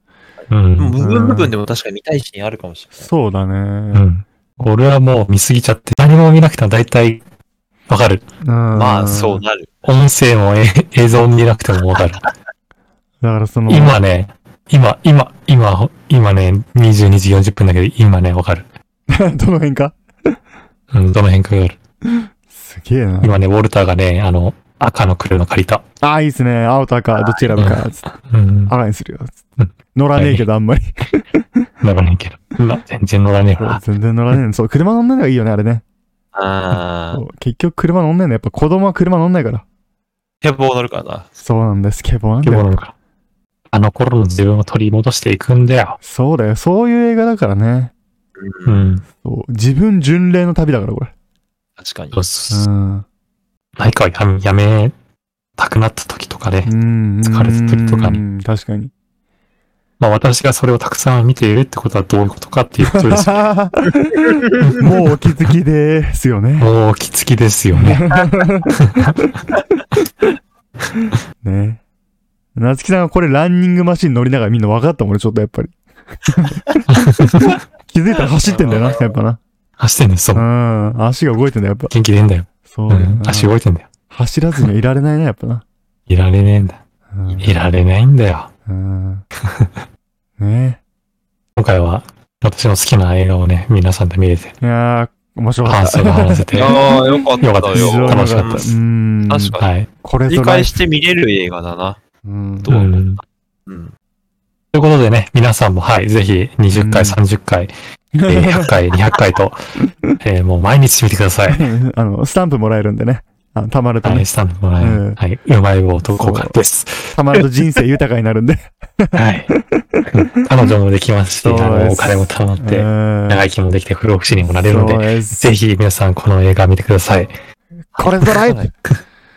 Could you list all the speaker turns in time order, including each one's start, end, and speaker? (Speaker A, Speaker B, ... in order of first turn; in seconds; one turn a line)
Speaker A: 0.5-0.9
Speaker B: 0.8-3.1
Speaker C: 1.0-1.5
Speaker C: 3.0-4.1
Speaker A: 3.9-7.2
Speaker A: 7.9-8.2
Speaker C: 8.4-9.4
Speaker B: 8.7-9.8
Speaker A: 9.8-12.2
Speaker C: 13.2-14.0
Speaker A: 13.7-18.7
Speaker C: 19.1-20.0
Speaker A: 20.9-21.8
Speaker C: 22.2-23.4
Speaker A: 23.2-25.8
Speaker C: 26.0-28.1
Speaker B: 27.1-27.6
Speaker A: 27.6-28.7
Speaker C: 28.7-29.4
Speaker A: 29.6-30.4
Speaker C: 29.9-31.4
Speaker A: 31.8-33.8
Speaker C: 33.6-35.8
Speaker B: 36.3-37.2
Speaker C: 37.1-39.6
Speaker B: 40.4-41.3
Speaker C: 41.4-42.7
Speaker A: 42.4-42.9
Speaker A: 43.7-46.0
Speaker C: 46.0-47.9
Speaker B: 48.4-49.0
Speaker A: 48.7-49.0
Speaker C: 49.2-51.1
Speaker B: 51.8-52.2
Speaker A: 52.1-52.7
Speaker C: 52.5-53.0
Speaker A: 53.8-55.0
Speaker A: 55.6-56.7
Speaker C: 56.7-58.9
Speaker A: 57.2-58.2
Speaker A: 60.0-63.5
Speaker C: 62.8-66.7
Speaker B: 64.4-64.8
Speaker A: 64.6-65.2
Speaker A: 66.6-69.1
Speaker C: 67.7-69.6
Speaker C: 71.4-71.8
Speaker C: 72.6-76.7
Speaker A: 76.9-77.6
Speaker C: 77.9-79.4
Speaker B: 78.4-79.2
Speaker A: 79.8-80.5
Speaker C: 80.3-81.9
Speaker A: 81.9-83.9
Speaker C: 82.7-83.5
Speaker C: 84.1-85.7
Speaker A: 86.1-86.8
Speaker C: 87.1-87.5
Speaker B: 87.3-87.5
Speaker A: 87.4-88.5
Speaker C: 88.7-89.2
Speaker A: 89.4-89.7
Speaker C: 90.4-90.8
Speaker A: 91.6-94.5
Speaker C: 94.6-97.2
Speaker A: 95.7-98.7
Speaker B: 96.5-99.7
Speaker C: 97.7-100.8
Speaker A: 99.6-99.9
Speaker B: 100.3-102.0
Speaker C: 102.2-102.7
Speaker B: 102.6-103.0
Speaker A: 102.7-103.2
Speaker B: 103.7-103.9
Speaker A: 104.7-107.7
Speaker C: 106.7-107.2
Speaker C: 108.2-108.7
Speaker A: 108.3-109.7
Speaker A: 110.2-111.7
Speaker C: 111.5-114.3
Speaker A: 114.0-117.5
Speaker C: 114.8-115.2
Speaker C: 116.0-116.6
Speaker C: 117.1-120.2
Speaker A: 119.1-119.5
Speaker A: 120.1-127.3
Speaker C: 121.4-123.5
Speaker C: 124.5-125.5
Speaker C: 127.9-128.7